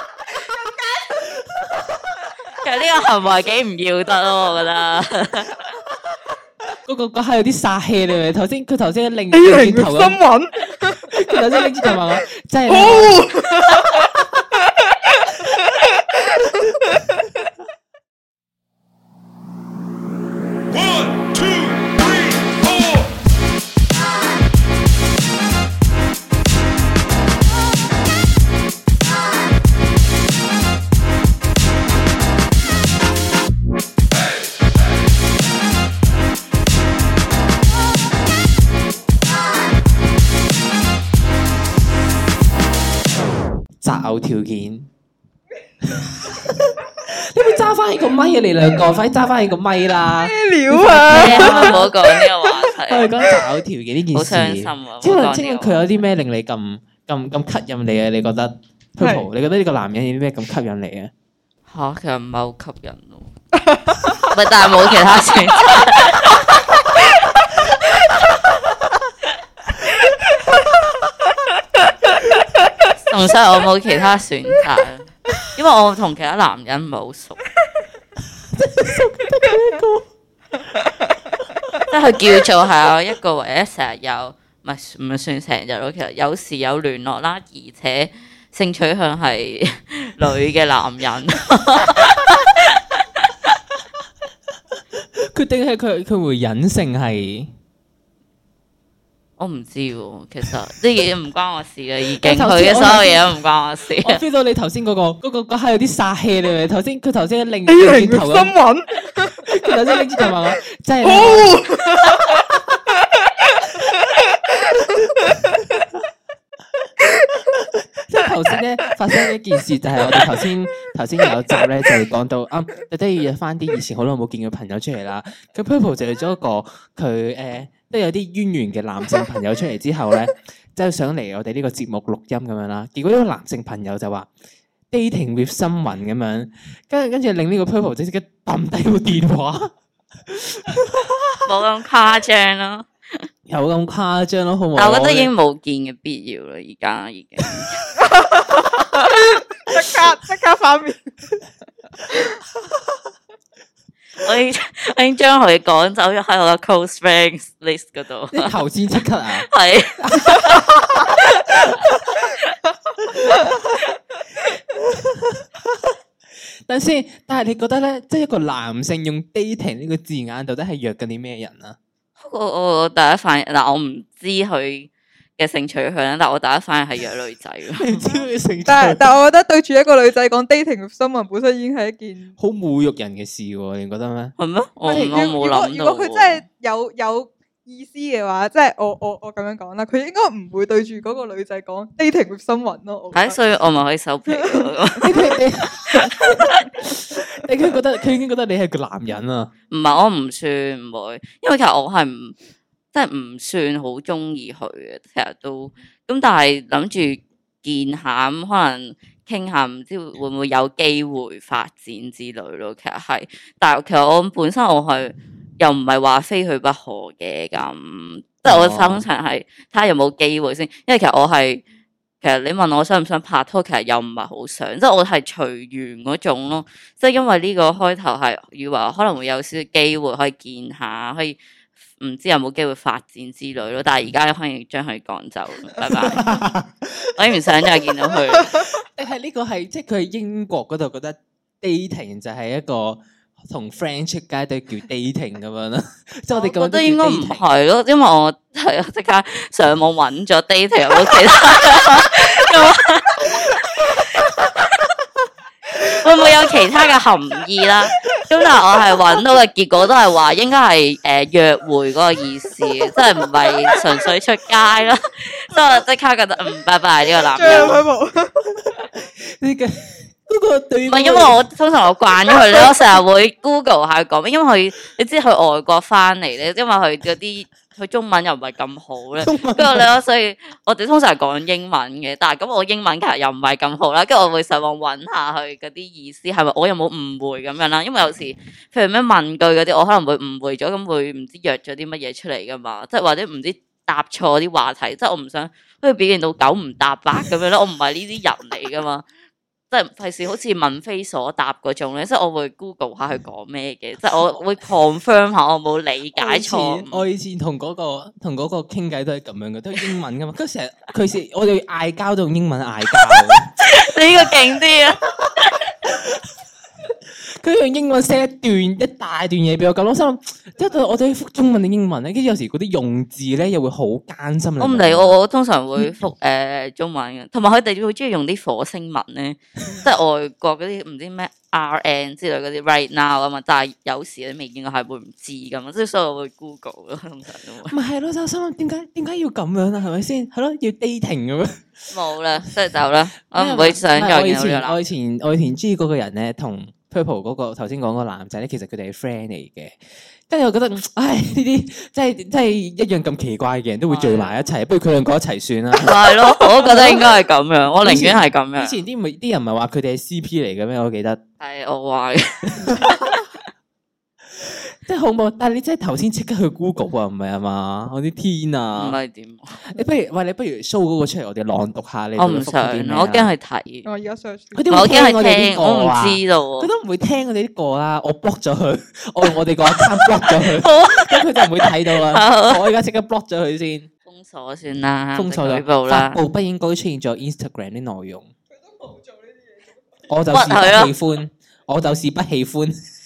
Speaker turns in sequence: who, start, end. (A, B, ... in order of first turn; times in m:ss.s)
0:00.4-0:01.4 A
0:02.6-0:05.8 B
0:06.8-0:10.2 C
0:09.3-0:17.2 A
0:11.1-0:14.1 C
0:43.8-0:44.9 C
0:45.8-0:51.9 C
0:50.1-0:52.5 A
0:51.1-0:53.1 B
0:52.9-1:01.1 C
0:54.1-0:55.8 B
0:59.0-0:59.3 A
1:01.7-1:03.3 B
1:03.5-1:04.3 A
1:04.3-1:06.5 B
1:10.4-1:11.3 C
1:13.1-1:17.4 B
1:18.5-1:20.1 C
1:21.9-1:33.3 B
1:35.2-1:37.5 C
1:39.4-1:44.2 B
1:42.2-1:43.3 C
1:44.0-1:48.6 C
1:47.7-1:55.6 A
1:49.4-1:52.4 C
1:57.0-1:57.5 A
1:57.6-2:14.3 C
2:00.0-2:00.3 A
2:14.9-2:19.7 C
2:20.3-2:21.4 C
2:21.4-2:22.9 B
2:23.5-2:25.3 C
2:24.8-2:27.8 B
2:28.0-2:31.1 A
2:34.2-2:38.6 B
2:38.3-2:39.5 C
2:39.5-2:42.6 B
2:40.0-2:42.0 C
2:43.1-2:43.8 C
2:44.7-2:46.0 C
2:46.7-2:51.8 C
2:52.2-2:57.9 B
2:57.8-2:59.1 C
2:58.0-3:02.4 A
3:02.4-3:04.4 C
3:04.4-3:06.4 B
3:04.9-3:05.2 C
3:04.9-3:13.4 A
3:13.1-3:15.1 B
3:14.3-3:15.3 A
3:15.0-3:19.5 C
3:15.9-3:16.5 B
3:19.7-3:22.4 B
3:22.9-3:41.6 B
3:38.5-3:39.0 C
3:42.2-3:51.4 B
3:52.0-3:56.3 B
3:55.8-3:57.1 C
3:57.2-3:58.5 B
3:58.6-4:07.4 C
4:06.4-4:14.7 B
4:15.9-4:27.8 B
4:27.2-4:28.9 A
4:27.4-4:27.8 C
4:28.7-4:31.4 C
4:30.9-4:59.1 B
4:39.2-4:39.9 C
4:59.7-5:07.0 B
5:06.2-5:13.5 C
5:13.0-5:15.7 B
5:15.8-5:16.2 C
5:17.3-5:25.2 C
5:24.6-5:37.7 B
5:37.7-5:41.7 C
5:41.9-5:44.8 B
5:43.3-5:49.8 C
5:50.3-5:57.1 C
5:53.9-5:54.3 B
5:55.7-5:58.8 B
5:57.8-6:01.2 C
6:01.4-6:03.2 B
6:02.6-6:03.2 C
6:04.4-6:09.0 C
6:08.8-6:09.6 B
6:09.6-6:13.3 C
6:12.2-6:13.9 B
6:13.8-6:14.7 A
6:14.6-6:23.9 C
6:14.7-6:16.7 B
6:19.8-6:22.6 B
6:24.1-6:26.2 B
6:25.2-6:28.3 C
6:28.6-6:29.8 A
6:30.1-6:32.8 C
6:30.3-6:30.9 B